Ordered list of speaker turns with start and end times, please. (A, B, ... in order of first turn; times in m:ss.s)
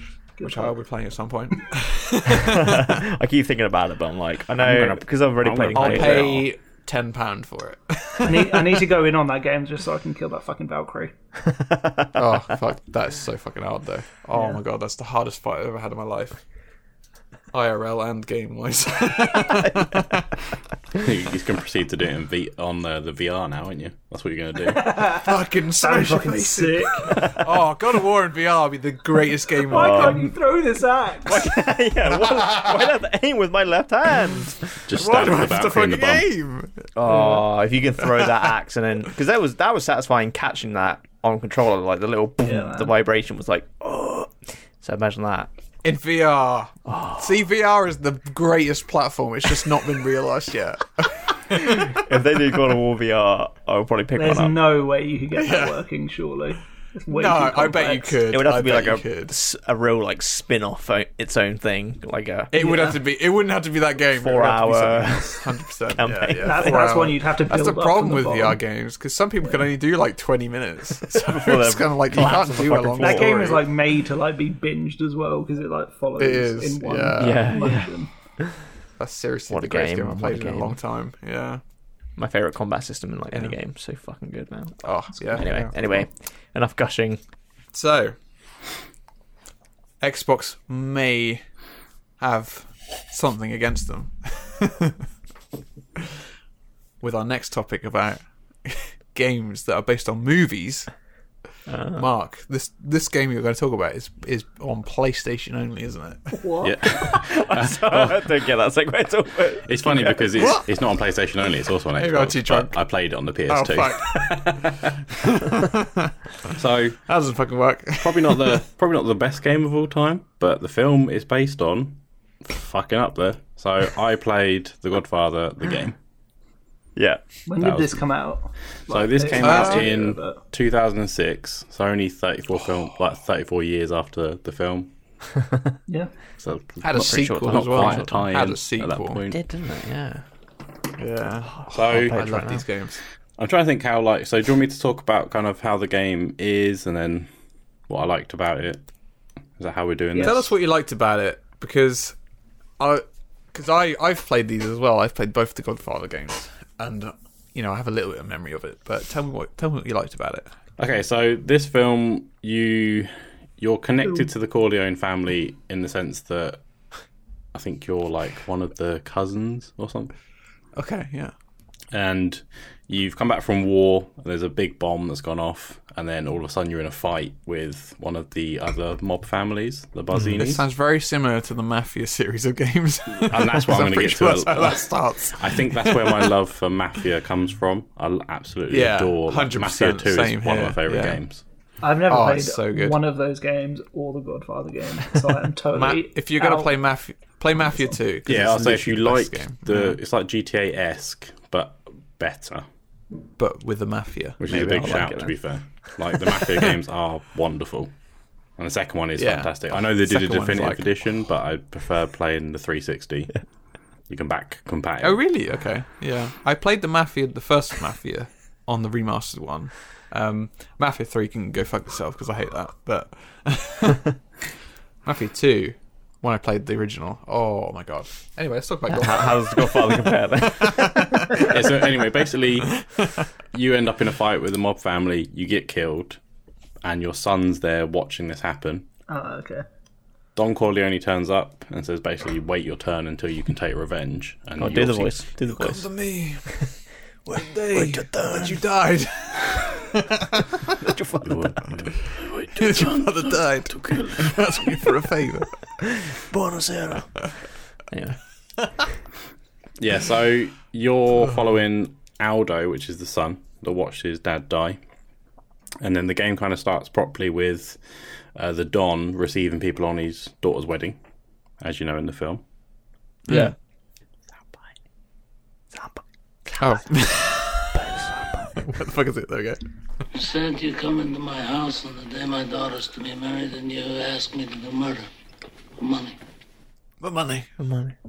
0:00.4-0:00.8 A
0:00.4-0:02.9 B
0:02.4-0:06.4 C
0:04.6-0:06.5 D
0:05.7-0:08.8 B
0:08.2-0:11.1 A
0:11.4-0:12.2 C
0:12.1-0:16.4 B
0:17.5-0:20.3 B
0:20.9-0:25.1 D
0:24.6-0:27.3 A
0:25.2-0:30.2 B
0:29.6-0:31.5 A
0:29.7-0:30.3 C
0:31.2-0:34.8 C
0:34.9-0:36.3 D
0:34.9-0:37.4 B
0:37.0-0:45.5 C
0:42.4-0:42.9 A
0:45.8-0:52.0 B
0:46.8-0:47.3 C
0:51.5-0:54.6 C
0:54.2-0:58.2 A
0:55.4-0:55.8 B
0:57.1-0:59.3 B
0:58.3-1:02.7 C
1:02.5-1:13.6 B
1:02.6-1:02.9 A
1:04.1-1:07.1 C
1:06.4-1:08.6 A
1:11.1-1:13.5 C
1:13.0-1:18.1 A
1:16.2-1:17.4 B
1:17.2-1:18.5 C
1:19.0-1:21.6 B
1:19.5-1:20.8 C
1:22.2-1:27.2 C
1:24.8-1:26.0 B
1:27.7-1:28.1 B
1:30.0-1:31.4 B
1:32.2-1:35.0 B
1:37.0-1:40.9 B
1:41.7-1:42.0 C
1:41.9-1:46.4 B
1:46.3-1:46.8 A
1:46.6-1:48.3 D
1:47.0-1:50.5 C
1:49.6-1:54.9 D
1:50.4-1:50.6 B
1:52.0-1:52.8 B
1:53.5-1:54.6 B
1:55.2-1:56.1 B
1:56.5-1:57.0 D
1:57.1-1:58.6 B
1:58.0-2:06.0 D
2:07.0-2:07.2 C
2:07.4-2:10.4 A
2:07.6-2:08.1 D
2:08.9-2:14.9 D
2:09.4-2:09.9 B
2:16.4-2:19.4 D
2:16.8-2:19.2 B
2:16.9-2:18.1 C
2:19.3-2:20.2 C
2:21.0-2:23.0 B
2:21.6-2:22.6 C
2:21.7-2:22.2 D
2:23.4-2:27.3 D
2:27.9-2:28.8 D
2:29.6-2:30.5 D
2:30.1-2:32.2 B
2:32.8-2:40.5 B
2:40.8-2:46.6 D
2:47.5-2:50.1 D
2:50.8-2:51.3 B
2:51.9-3:00.6 D
3:00.4-3:06.3 B
3:03.2-3:11.4 D
3:08.7-3:11.2 B
3:11.8-3:16.7 A
3:12.1-3:13.0 B
3:15.7-3:20.0 B
3:18.2-3:22.6 D
3:23.4-3:25.1 B
3:24.4-3:27.9 D
3:24.5-3:25.3 C
3:28.6-3:33.4 D
3:29.2-3:30.9 B
3:34.1-3:35.2 D
3:35.0-3:44.1 B
3:45.0-3:51.5 B
3:48.9-3:51.4 C
3:51.3-3:52.8 D
3:52.8-3:53.0 B
3:53.5-3:56.2 D
3:56.8-3:58.8 D
3:59.1-3:59.6 A
4:00.4-4:05.1 D
4:04.6-4:05.9 C
4:05.5-4:06.5 B
4:07.3-4:08.6 C
4:07.3-4:10.5 B
4:10.8-4:11.6 C
4:11.2-4:14.5 D
4:12.6-4:15.5 B
4:15.8-4:17.2 C
4:17.9-4:18.2 C
4:19.8-4:24.8 D
4:25.8-4:27.8 D
4:28.3-4:31.0 D
4:31.6-4:32.4 D
4:33.3-4:33.5 B
4:33.3-4:33.5 C
4:35.7-4:36.6 C
4:36.6-4:37.8 B
4:37.7-4:38.6 C
4:38.6-4:39.6 B
4:40.1-4:45.1 E
4:45.8-4:46.2 E
4:47.0-4:47.5 B
4:47.6-4:47.9 C